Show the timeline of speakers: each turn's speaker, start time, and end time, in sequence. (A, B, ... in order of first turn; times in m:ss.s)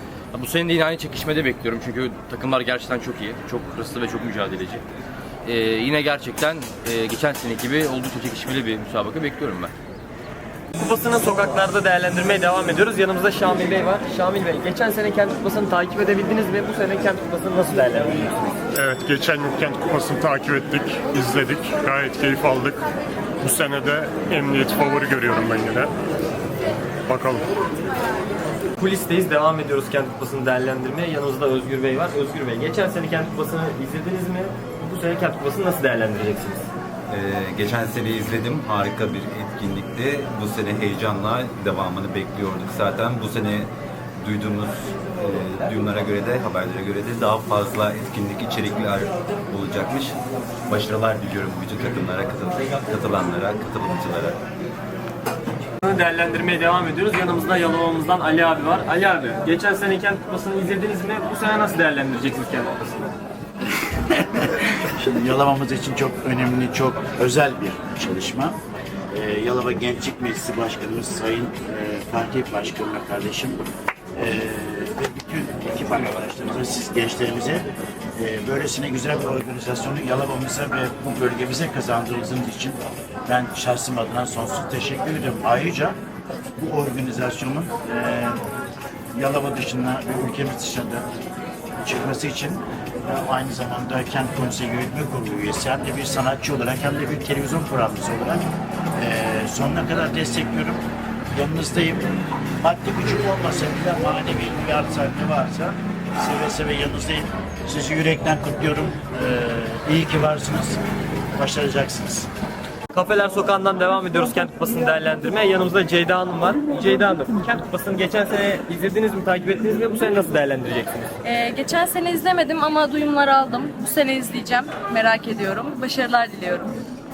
0:00.3-0:04.8 A
0:05.4-0:09.7 A
0:10.8-0:18.5 B
0:18.7-0:22.8 C
0:23.4-0:25.9 C
0:27.1-0:27.4 C
0:28.8-0:36.7 B
0:37.1-0:54.4 D
0:55.8-1:03.1 B
1:04.1-1:08.6 E
1:09.1-1:13.6 E
1:14.2-1:26.0 E
1:26.6-1:28.4 E
1:29.1-1:31.1 E
1:31.8-1:38.4 E
1:39.0-1:42.1 E
1:42.6-1:50.8 E
1:51.3-1:52.3 E
1:52.9-2:01.1 B
2:01.2-2:06.8 F